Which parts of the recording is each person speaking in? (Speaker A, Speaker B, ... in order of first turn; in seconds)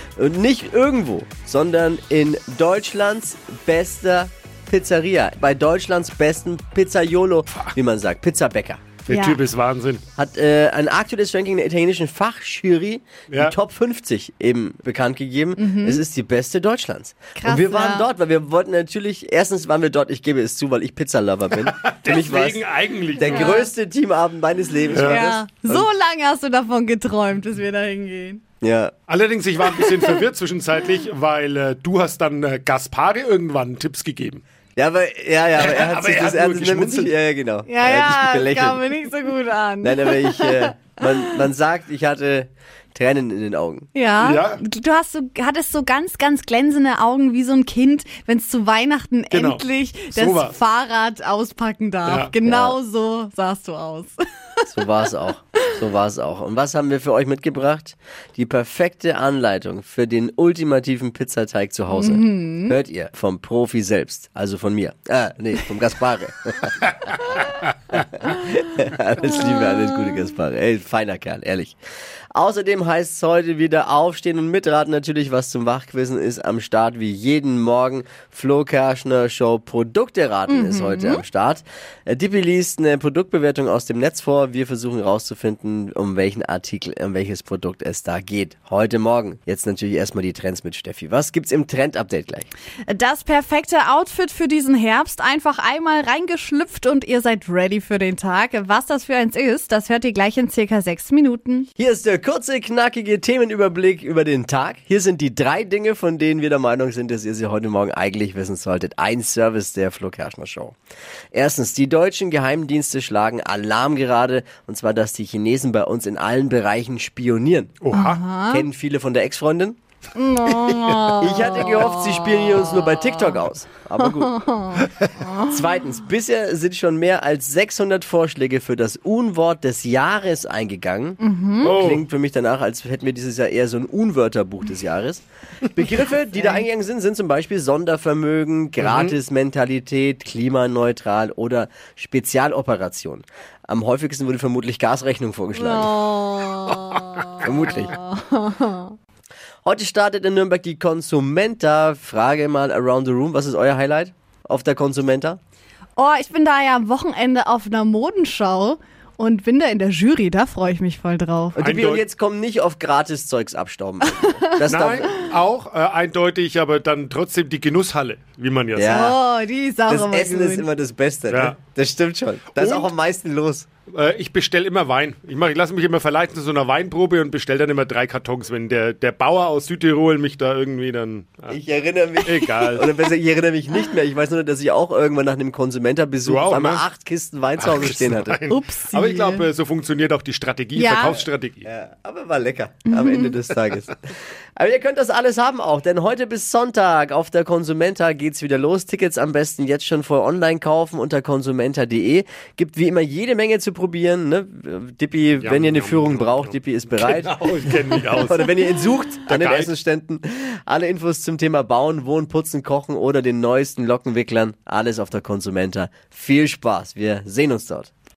Speaker A: 0.2-8.9, 10.2-22.6, 23.2-25.9, 28.6-28.9, 34.8-38.9, 39.8-43.9, 52.4-52.8, 54.7-71.8, 72.3-92.5, 101.8-110.8, 111.3-117.8, 118.5-119.8, 121.2-124.3, 125.4-146.0, 147.4-148.0, 149.6-155.4, 161.5-165.1, 168.7-169.2, 169.9-173.7, 181.5-188.4, 191.1-207.4, 207.9-217.9
Speaker B: 9.0-10.0, 13.3-13.6, 21.6-23.6, 24.9-25.2, 29.1-34.4, 35.5-37.1, 44.2-44.6, 49.3-50.5, 117.8-118.2, 131.6-132.0, 138.8-139.2, 161.6-162.0, 164.6-169.1, 171.3-171.6, 172.5-172.9, 173.9-181.6, 182.2-183.0, 186.2-186.8, 187.6-191.7, 205.4-208.7, 209.2-209.7
Speaker C: 9.1-9.4, 15.6-16.0, 17.4-18.1, 23.2-23.7, 24.9-28.4, 29.6-30.2, 37.7-41.4, 43.9-54.8, 61.9-62.7, 80.5-81.2, 92.9-101.7, 117.9-118.6, 120.1-123.2, 124.0-125.5, 131.2-131.7, 145.5-148.9, 155.9-161.6, 164.2-164.5, 168.9-170.7, 188.5-189.5, 190.7-191.2, 192.9-193.3